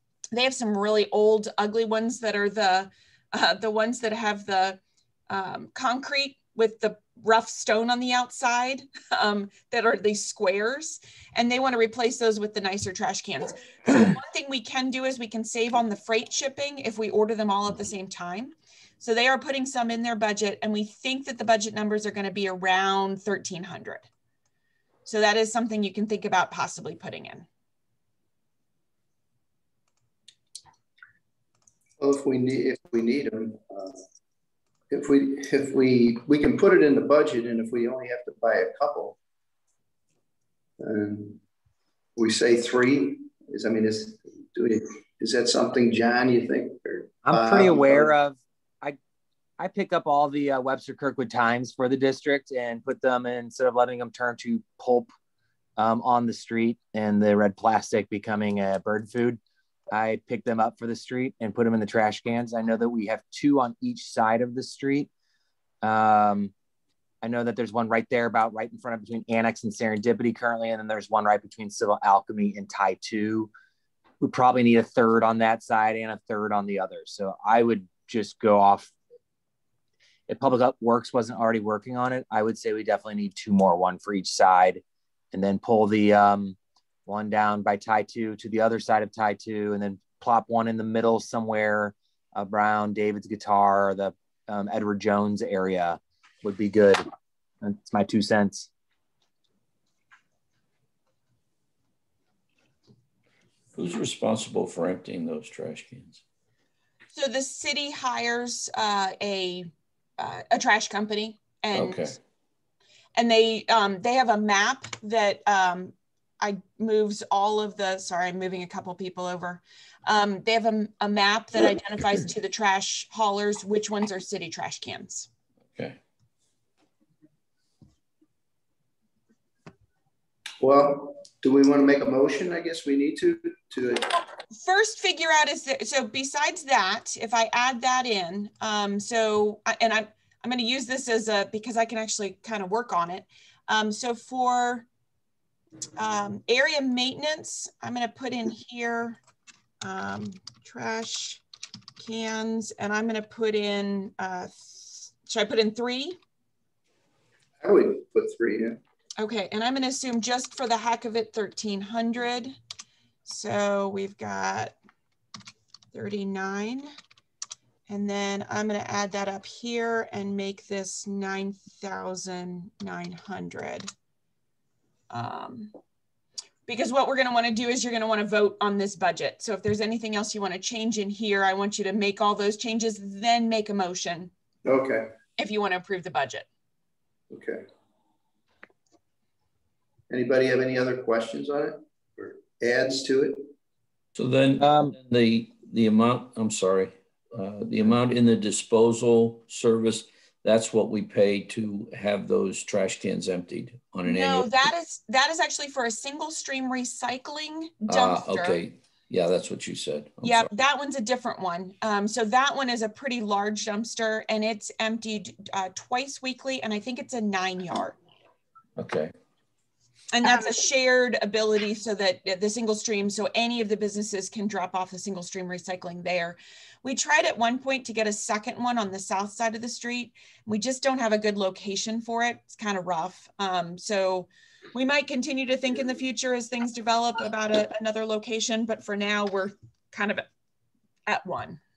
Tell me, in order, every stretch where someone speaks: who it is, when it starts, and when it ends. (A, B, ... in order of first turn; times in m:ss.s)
0:00.3-0:24.1 A
0:25.1-0:27.5 A
0:32.0-0:34.0 B
0:34.9-0:39.2 B
0:40.8-0:41.4 B
0:42.2-0:48.1 B
0:47.2-0:49.0 C
0:49.6-0:55.1 C
0:55.8-0:59.4 C
0:59.9-1:05.1 C
1:05.8-1:06.5 C
1:07.2-1:13.5 C
1:14.2-1:18.9 C
1:20.3-1:37.1 C
1:37.6-1:38.7 C
1:43.8-1:46.2 D
1:47.1-1:52.2 A
1:51.7-1:52.2 D
1:53.2-2:05.3 A
2:10.6-2:14.2 B
2:14.6-2:24.9 A
2:26.0-2:29.2 A
2:29.8-2:31.4 A
2:32.0-2:36.2 A
2:37.6-2:38.8 B
2:39.2-2:42.6 A
2:43.3-2:44.8 A
2:45.9-2:46.9 A
2:47.9-2:53.9 A
2:55.1-2:55.7 A
2:56.7-3:04.3 A
3:04.6-3:05.1 B
3:05.4-3:06.5 A
3:07.3-3:07.6 B
3:10.1-3:13.5 B
3:14.2-3:24.7 D
3:14.6-3:15.0 C
3:24.0-3:28.6 A
3:27.9-3:30.5 D
3:30.2-3:38.0 A
3:38.8-3:39.1 D
3:40.1-4:00.3 A
4:01.1-4:01.6 A